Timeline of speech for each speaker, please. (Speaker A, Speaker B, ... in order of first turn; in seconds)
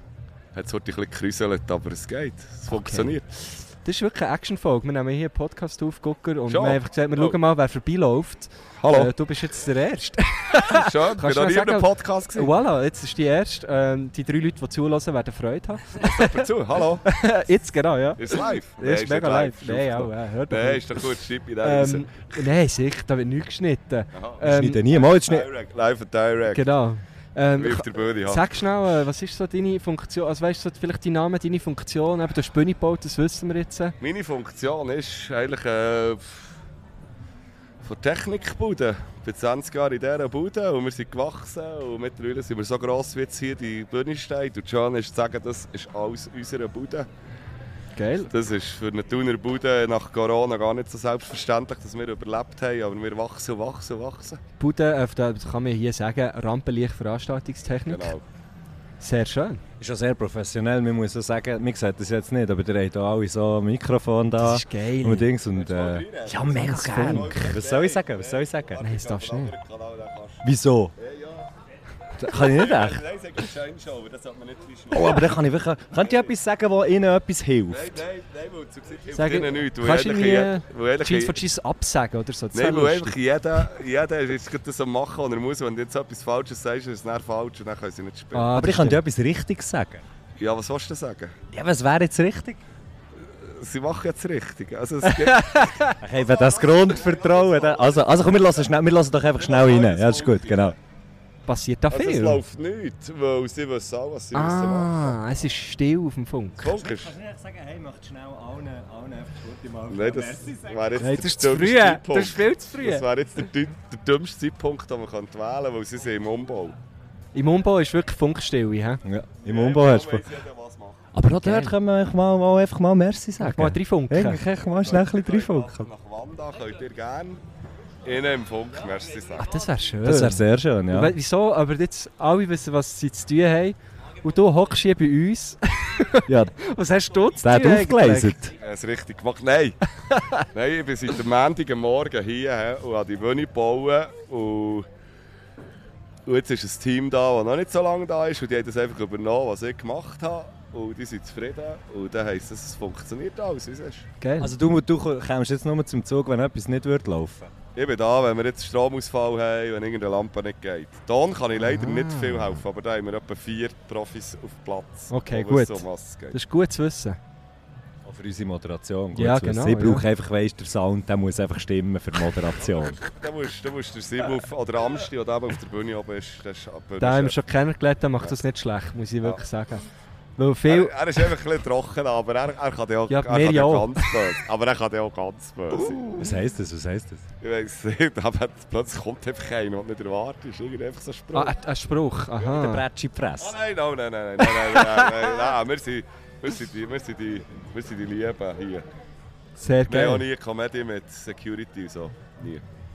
Speaker A: 0.5-3.3, 6.5-7.4, 8.8-9.1, 10.5-12.5, 16.0-17.1, 18.2-22.4, 24.1-26.7, 27.6-28.4, 34.0-36.5, 37.8-47.1, 48.3-54.4, 57.9-58.2, 65.5-71.5, 72.2-75.4, 76.0-76.3, 77.7-81.4, 82.5-88.5, 90.4-91.3, 93.2-98.4, 99.3-100.8, 101.9-105.2, 106.6-107.1, 109.9-116.8, 119.4-121.0, 124.7-127.4, 128.1-129.5, 138.6-139.8, 140.5-144.9, 146.2-154.1, 157.8-166.4, 172.9-177.4, 180.7-186.2, 187.4-191.6, 193.4-198.9, 199.9-202.6
Speaker B: 2.7-16.5, 17.0-24.8, 26.5-33.9, 47.9-48.3, 54.6-58.1, 59.0-59.6, 64.4-65.3, 66.5-67.6, 68.8-69.5, 79.1-83.2, 88.3-89.0, 95.0-96.0, 101.5-102.4, 104.3-106.7, 111.0-113.0, 117.3-119.0, 121.4-121.7, 123.4-124.4, 129.4-138.4, 140.1-140.4, 154.2-154.5, 161.6-162.6, 165.1-167.2, 169.1-170.1, 177.0-179.9, 180.4-181.0, 183.1-184.3, 185.9-186.3, 191.3-192.8, 194.6-195.1, 199.6-200.2
Speaker C: 24.4-25.5, 59.8-68.8, 70.4-70.9, 72.2-73.0, 74.9-78.0, 88.5-90.0, 91.5-92.6, 96.0-100.8, 106.7-111.0, 119.0-120.2, 121.1-125.9, 130.0-131.1, 136.3-136.5, 137.4-138.5, 154.4-157.5, 168.0-173.0, 186.2-187.2, 192.5-193.6